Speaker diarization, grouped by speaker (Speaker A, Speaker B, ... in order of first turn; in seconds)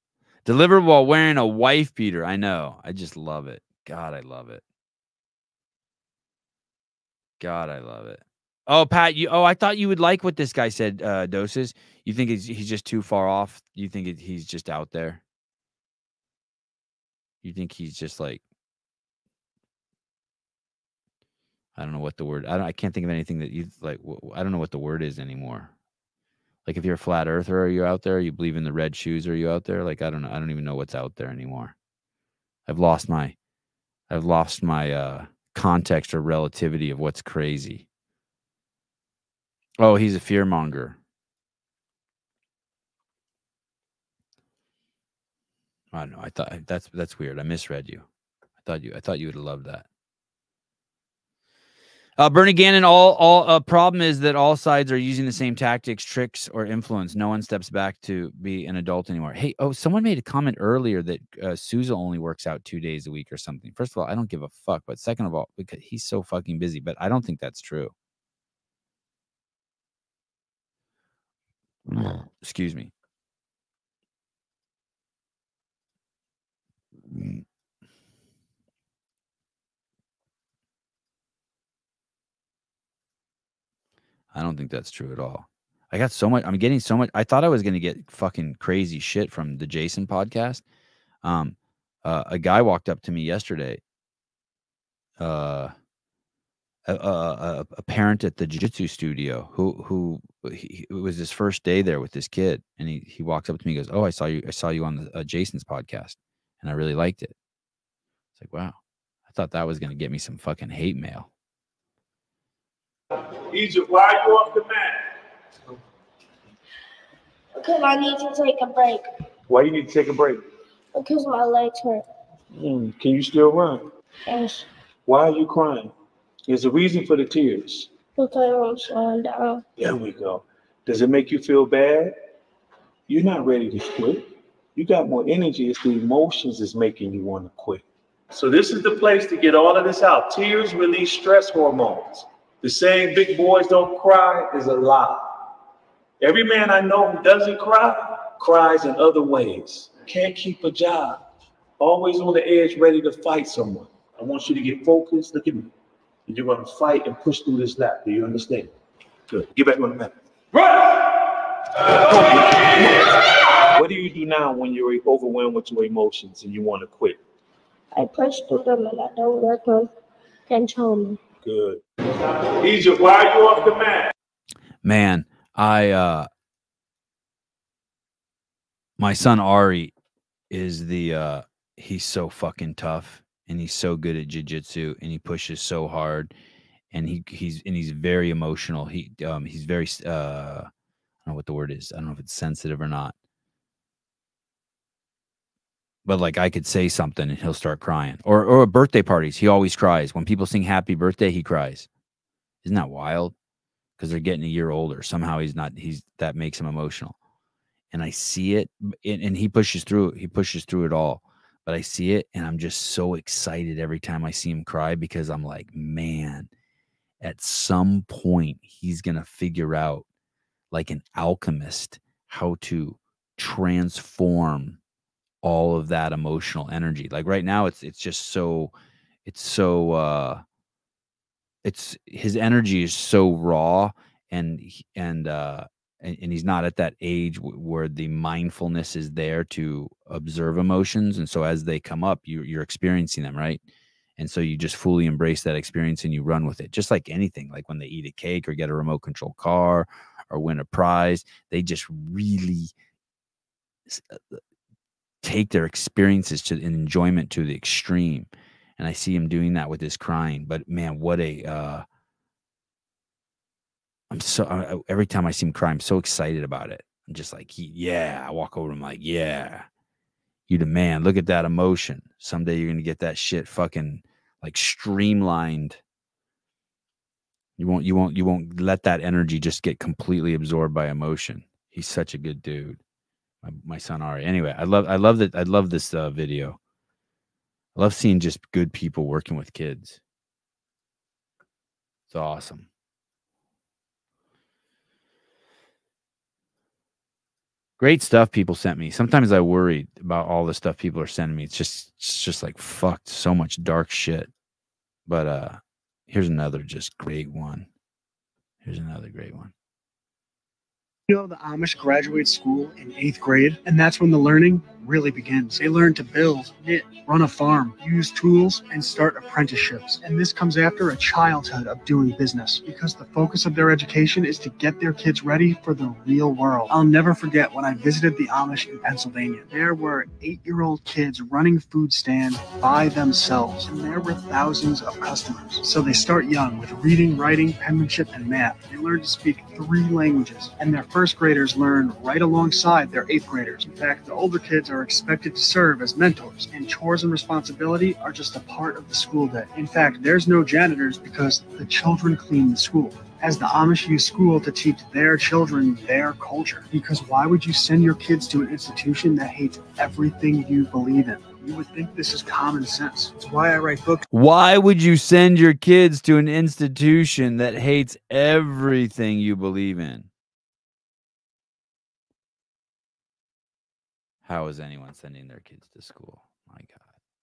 Speaker A: 0.4-4.6, 7.4-15.2, 17.4-18.4, 21.8-25.7, 26.6-31.7, 32.7-33.3, 34.1-37.8, 39.8-41.0, 45.9-48.0, 48.6-49.9, 52.2-67.9, 71.9-72.9, 77.1-77.4, 84.3-90.6, 91.2-93.8, 95.2-95.7, 96.8-107.3, 108.3-111.3, 174.8-176.3, 179.0-179.9, 180.5-186.3, 186.9-190.7, 191.2-193.1, 196.0-201.9, 202.6-203.3, 204.0-207.2, 207.9-216.5, 217.2-220.0, 220.7-224.8, 225.4-228.7, 229.2-230.4, 231.6-243.6, 244.2-252.7, 253.9-254.4, 255.2-261.8, 264.1-269.7, 270.5-275.8, 277.6-282.8, 283.4-286.6, 287.7-290.0, 292.1-292.7, 297.8-304.3, 305.1-307.7, 308.6-309.5, 364.1-370.1, 374.2-376.9
Speaker B: 113.5-115.2, 119.5-120.4, 122.5-123.8, 125.0-125.9, 126.5-127.9, 129.8-132.2, 133.1-145.3, 146.2-151.2, 151.8-155.7, 156.3-158.7, 159.3-167.2, 171.4-171.8, 172.5-174.1
Speaker C: 117.5-119.0, 120.9-122.0, 124.3-124.6, 128.2-129.6, 167.9-169.9, 170.5-171.2
Speaker D: 311.1-364.0